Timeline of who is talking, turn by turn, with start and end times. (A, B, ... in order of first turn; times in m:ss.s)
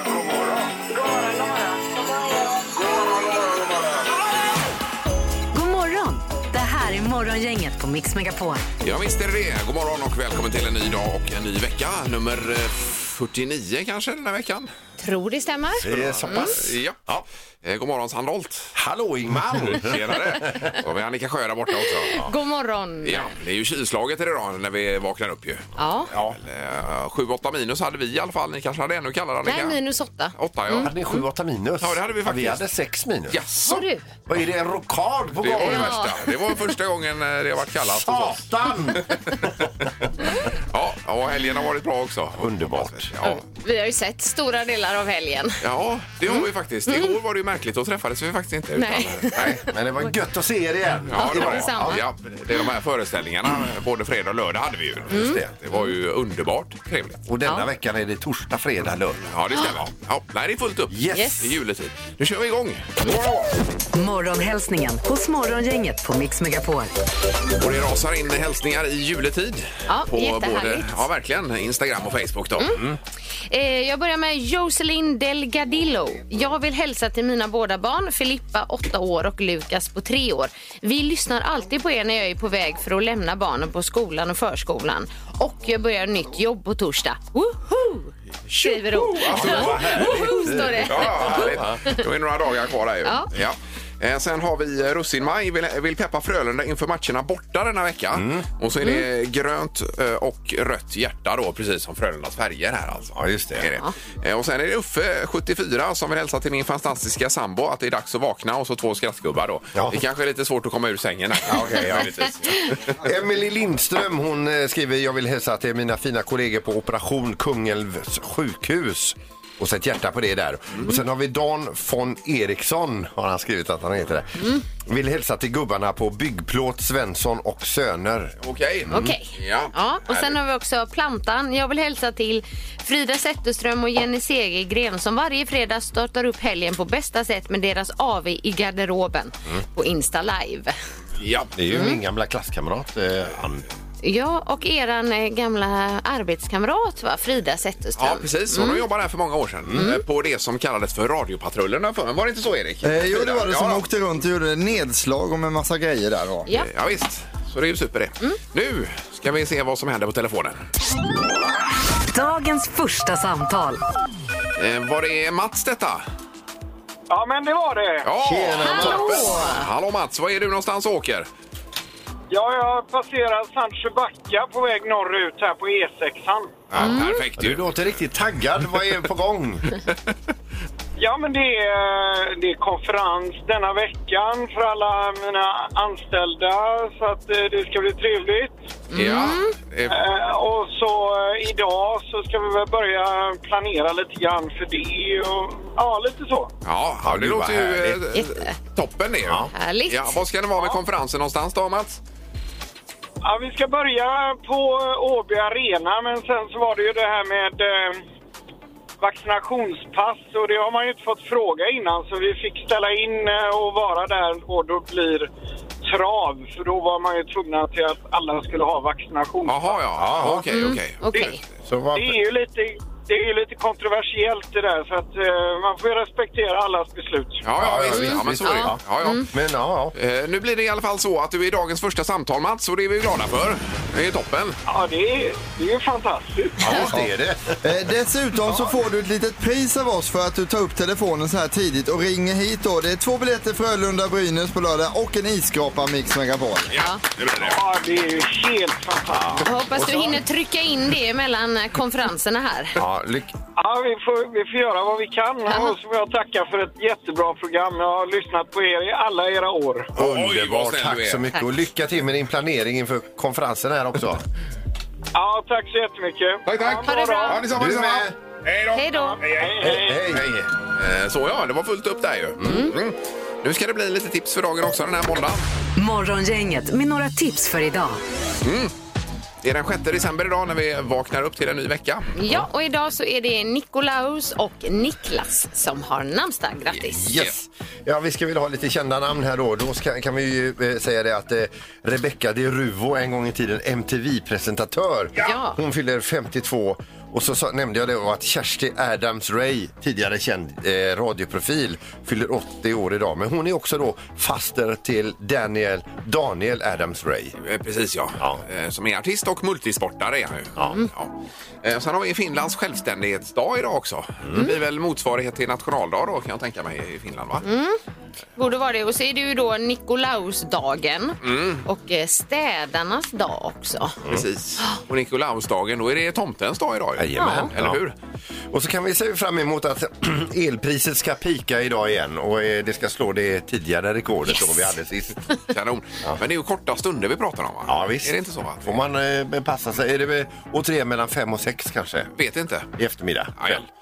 0:00.4-0:01.6 A
0:05.5-0:08.6 B
0:08.8-0:14.7 C
0:15.0-0:16.5 D
0:15.8-0:17.2 E
0:15.9-0:18.7 C
0:18.7-0:20.8 E
0:19.3-0:22.2 C
0:21.9-0:23.3 D
0:23.0-0:29.8 C
0:25.8-0:26.1 D
0:29.4-0:31.2 D
0:30.3-0:30.9 C
0:30.7-0:33.4 E
0:31.8-0:32.6 C
0:33.3-0:33.8 C
0:33.6-0:34.1 D
0:34.3-0:36.1 E
0:35.4-0:39.2 C
0:35.6-0:36.3 D
0:37.8-0:39.4 E
0:40.5-0:43.4 C
0:42.4-0:43.1 E
0:43.2-0:45.6 D
0:45.6-0:49.6 C
0:46.3-0:47.2 D
0:48.8-0:49.6 D
0:49.3-0:52.0 E
0:51.1-0:57.2 C
0:51.1-0:52.0 D
0:55.1-0:55.5 E
0:55.1-0:55.9 D
0:57.3-0:59.2 E
0:59.3-1:03.5 C
1:00.9-1:01.5 E
1:01.1-1:01.4 D
1:03.9-1:06.9 B
1:07.6-1:12.7 C
1:09.9-1:11.0 D
1:12.7-1:13.0 E
1:13.5-1:32.0 D
1:28.5-1:53.0 C
1:29.2-1:31.8 E
1:38.1-1:38.4 E
1:43.1-1:43.7 E
1:51.4-1:52.3 E
1:53.0-2:09.1 E
2:04.4-2:04.6 D
2:08.4-2:10.4 C
2:08.9-2:20.7 D
2:21.2-2:21.5 C
2:21.6-2:23.6 E
2:21.7-2:22.0 D
2:24.0-2:28.8 D
2:28.0-2:33.8 C
2:29.8-2:30.0 D
2:32.8-2:36.5 F
2:36.5-2:40.6 C
2:42.1-2:43.8 B
2:44.6-2:46.0 C
2:47.1-2:48.1 A
2:48.0-2:51.3 C
2:48.2-2:49.4 E
2:48.6-2:49.6 D
2:52.3-2:56.6 A
2:56.7-2:58.0 C
2:56.8-2:57.2 D
2:56.8-2:59.8 E
3:01.0-3:08.6 A
3:08.9-3:09.5 D
3:08.9-3:10.0 C
3:09.9-3:16.5 A
3:16.6-3:22.0 C
3:17.0-3:18.0 E
3:18.1-3:18.5 D
3:19.2-3:19.5 E
3:19.5-3:20.2 D
3:23.2-3:28.0 A
3:29.0-3:35.3 A
3:35.8-3:39.8 A
3:39.4-3:41.3 C
3:40.0-3:40.7 E
3:40.5-3:41.4 D
3:41.1-3:41.4 A
3:41.6-3:42.2 E
3:41.9-3:47.4 A
3:47.4-3:49.3 C
3:47.6-3:49.9 E
3:47.9-3:49.3 D
3:49.9-3:54.6 C
3:54.7-3:56.8 A
3:56.6-3:57.6 E
3:56.9-4:06.7 F
4:06.7-4:07.6 C
4:07.3-4:09.5 A
4:09.1-4:10.2 E
4:09.4-4:12.8 D
4:12.8-4:13.3 E
4:13.6-4:19.9 A
4:15.5-4:15.7 D
4:20.0-4:21.2 C
4:20.0-4:24.2 E
4:25.1-4:27.4 A
4:26.4-4:35.4 C
4:26.8-4:27.4 D
4:27.5-4:28.1 E
4:28.7-4:29.2 D
4:29.0-4:30.1 A
4:29.6-4:30.5 E
4:32.4-4:32.7 E
4:35.8-4:38.0 B
4:38.4-4:38.7 C
4:39.4-4:42.4 C
4:42.2-4:47.0 D
4:46.9-5:07.3 E
4:55.2-4:55.6 D
5:07.4-5:11.1 C
5:11.6-5:17.4 C
5:17.4-5:17.8 D
5:18.4-5:24.0 D
5:21.2-5:21.6 C
5:24.1-5:27.9 C
5:27.0-5:27.8 E
5:27.2-5:27.5 D
5:28.5-5:35.2 E
5:35.5-5:38.8 C
5:37.6-5:42.1 E
5:42.2-5:42.7 C
5:42.8-5:43.6 E
5:43.4-5:43.6 C